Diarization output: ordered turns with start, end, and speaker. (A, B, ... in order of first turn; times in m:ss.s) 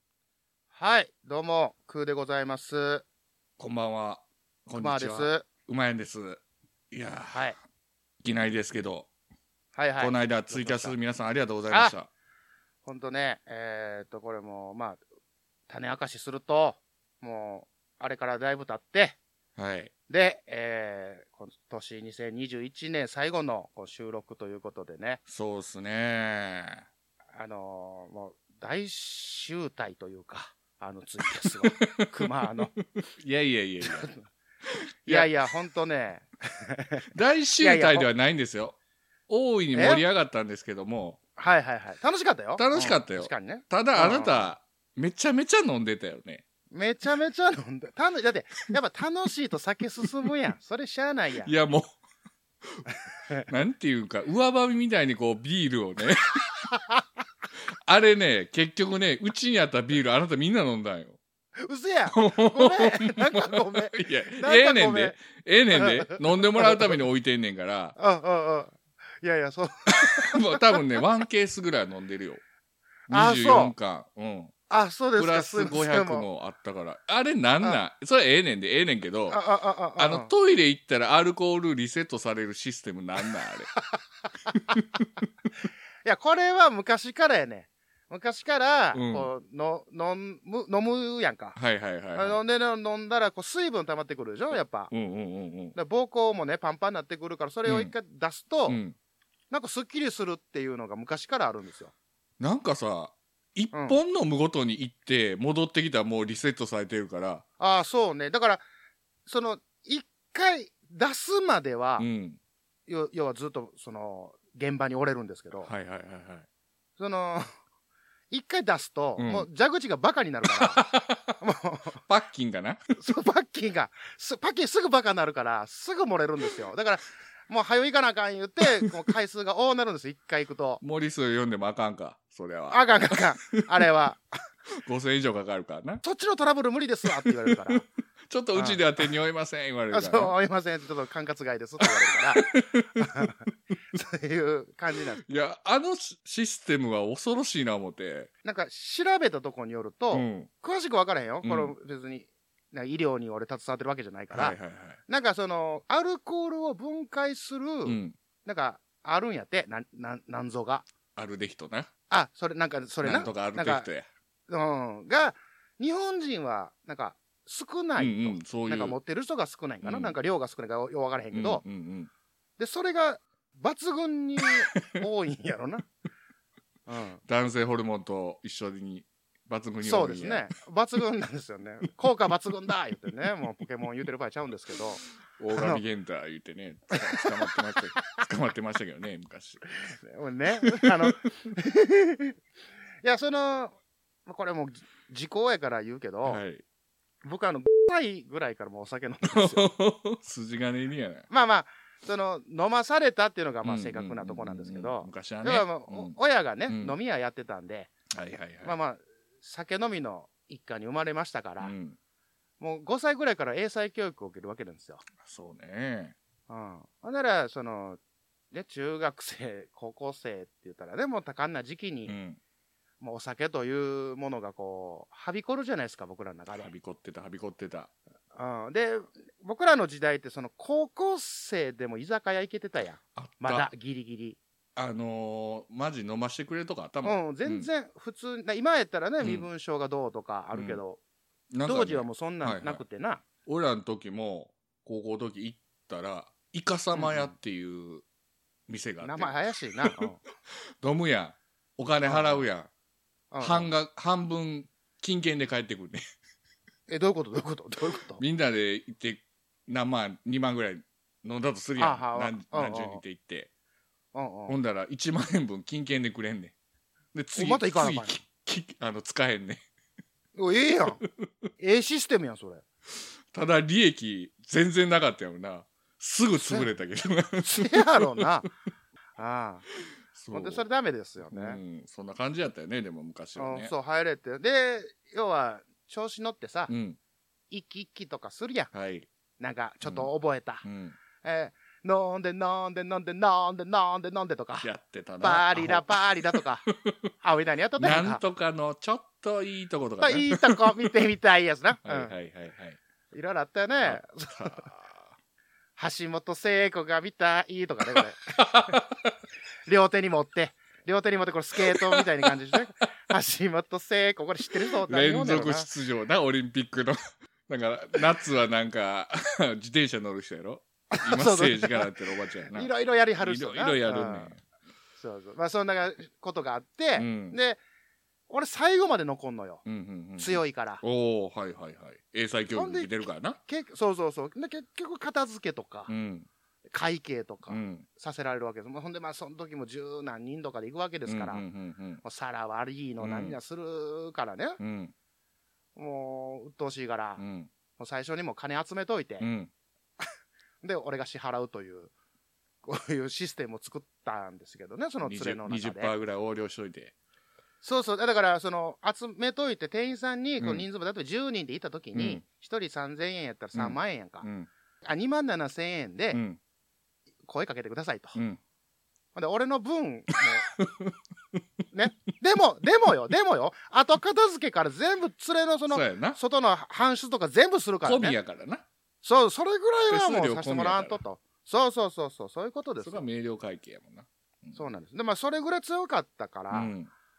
0:00.7-0:03.0 A
0:03.6-0:07.4 B
0:04.8-0:05.4 A
0:07.3-0:07.6 A
0:08.2-0:09.1 B
0:09.8-0:10.9 A
0:10.0-0:12.1 B
0:12.8-0:15.0 A
0:15.7-0:19.2 A
0:19.6-0:19.9 B
0:20.1-0:25.2 A
0:25.3-0:26.8 B
0:27.3-0:32.7 A
0:31.6-0:32.1 B
0:33.2-0:34.1 B
0:34.7-0:35.3 B
0:35.1-0:37.0 A
0:37.1-0:38.8 B
0:37.6-0:38.1 A
0:39.3-0:41.2 B
0:39.7-0:40.0 A
0:41.4-0:44.5 A
0:42.6-0:46.4 B
0:46.7-0:51.5 A
0:51.4-0:52.0 B
0:53.5-0:56.5 B
0:57.9-1:01.2 B
1:01.6-1:05.2 A
1:02.1-1:08.0 B
1:05.7-1:07.0 A
1:08.0-1:10.8 A
1:09.9-1:12.4 B
1:13.1-1:13.7 A
1:13.1-1:14.5 B
1:14.7-1:16.2 A
1:15.2-1:19.4 B
1:19.3-1:20.3 A
1:20.0-1:23.7 B
1:24.5-1:25.0 B
1:26.0-1:31.6 A
1:28.9-1:29.3 B
1:31.6-1:32.4 B
1:32.2-1:34.9 A
1:34.9-1:35.8 B
1:35.7-1:38.8 A
1:37.6-1:37.9 B
1:38.7-1:38.9 B
1:39.5-1:41.9 A
1:42.4-1:47.4 B
1:43.7-1:44.0 A
1:47.6-1:48.6 A
1:49.2-1:52.1 A
1:52.0-1:52.4 B
1:52.9-1:55.7 A
1:55.6-1:56.4 B
1:57.0-1:57.5 A
1:58.3-2:00.9 A
1:59.2-1:59.5 B
2:00.6-2:01.3 B
2:01.4-2:02.0 A
2:02.1-2:02.9 B
2:03.0-2:10.8 A
2:10.8-2:12.9 B
2:12.7-2:14.2 A
2:14.8-2:16.0 B
2:16.0-2:17.8 A
2:17.2-2:17.8 B
2:18.3-2:20.3 B
2:18.5-2:18.8 A
2:19.9-2:23.4 A
2:21.8-2:23.3 B
2:23.9-2:25.2 A
2:25.2-2:28.3 B
2:28.4-2:40.8 A
2:30.1-2:30.5 B
2:31.4-2:31.7 B
2:34.3-2:35.0 B
2:37.8-2:38.2 B
2:41.2-2:41.9 B
2:42.1-2:43.9 A
2:43.0-2:44.1 B
2:44.5-2:51.6 A
2:48.0-2:49.0 B
2:49.8-2:50.1 B
2:51.3-2:52.1 B
2:52.6-2:55.9 A
2:56.9-2:57.2 A
2:57.3-3:00.5 B
2:59.8-3:05.0 A
3:05.4-3:09.7 B
3:05.5-3:05.8 A
3:09.9-3:12.3 A
3:10.6-3:11.1 B
3:13.0-3:16.4 A
3:16.2-3:16.6 B
3:17.2-3:19.7 A
3:19.3-3:21.3 B
3:21.3-3:27.9 A
3:23.6-3:26.2 B
3:26.7-3:26.9 B
3:28.1-3:28.7 B
3:28.6-3:31.7 A
3:31.6-3:32.0 B
3:32.6-3:35.0 A
3:35.2-3:36.2 B
3:36.5-3:38.0 A
3:38.5-3:42.1 A
3:42.1-3:42.4 B
3:43.0-3:46.7 A
3:46.5-3:47.9 B
3:48.3-3:54.4 A
3:53.2-3:53.7 B
3:54.8-3:57.7 B
3:57.0-4:01.0 A
3:59.2-3:59.5 B
4:00.5-4:00.8 B
4:01.5-4:02.8 B
4:01.6-4:03.2 A
4:03.4-4:08.0 B
4:06.9-4:07.3 A
4:08.7-4:09.3 B
4:09.0-4:10.2 A
4:10.8-4:12.7 B
4:12.0-4:12.4 A
4:13.3-4:13.7 A
4:13.4-4:16.0 B
4:16.9-4:18.2 A
4:18.2-4:23.5 B
4:21.8-4:23.0 A
4:24.1-4:24.6 A
4:24.5-4:26.5 B
4:27.1-4:29.6 B
4:27.4-4:28.2 A
4:30.4-4:31.0 A
4:31.6-4:32.6 A
4:33.3-4:38.3 B
4:37.4-4:38.5 A
4:39.2-4:39.7 A
4:40.1-4:40.6 B
4:40.3-4:41.6 A
4:41.3-4:43.7 B
4:43.4-4:46.7 A
4:46.7-4:47.0 B
4:47.5-4:48.7 A
4:48.7-4:49.1 B
4:49.4-4:50.6 A
4:49.8-4:50.1 B
4:50.6-4:51.0 B
4:51.2-4:54.7 A
4:54.6-4:56.9 B
4:55.2-4:56.7 A
4:57.2-4:58.2 A
4:57.8-5:00.9 B
5:00.0-5:02.1 A
5:01.8-5:02.8 B
5:03.1-5:04.6 A
5:03.8-5:05.1 B
5:05.8-5:08.7 A
5:08.4-5:09.1 B
5:09.6-5:15.7 A
5:11.6-5:12.3 B
5:14.8-5:24.4 B
5:20.9-5:21.9 A
5:22.5-5:24.3 A
5:25.0-5:27.6 A
5:27.0-5:27.4 B
5:28.3-5:30.8 A
5:29.6-5:33.4 B
5:32.5-5:35.9 A
5:35.9-5:36.3 B
5:36.7-5:41.4 A
5:37.5-5:37.8 B
5:41.1-5:42.0 B
5:42.0-5:44.6 A
5:43.0-5:43.4 B
5:44.6-5:44.9 B
5:45.8-5:47.2 A
5:47.2-5:47.5 B
5:47.8-5:49.3 A
5:49.2-5:49.5 B
5:50.6-5:51.9 A
5:52.6-5:55.9 A
5:55.0-5:56.9 B
5:57.6-6:04.2 A
6:00.4-6:00.6 B
6:01.9-6:02.2 B
6:03.5-6:04.5 B
6:04.8-6:06.2 A
6:06.1-6:06.4 B
6:07.2-6:08.2 A
6:09.1-6:10.5 A
6:10.6-6:10.9 B
6:11.7-6:18.2 A
6:15.7-6:16.2 B
6:17.8-6:18.6 B
6:19.0-6:23.0 A
6:19.9-6:21.0 B
6:22.8-6:24.7 B
6:24.5-6:26.7 A
6:26.5-6:26.9 B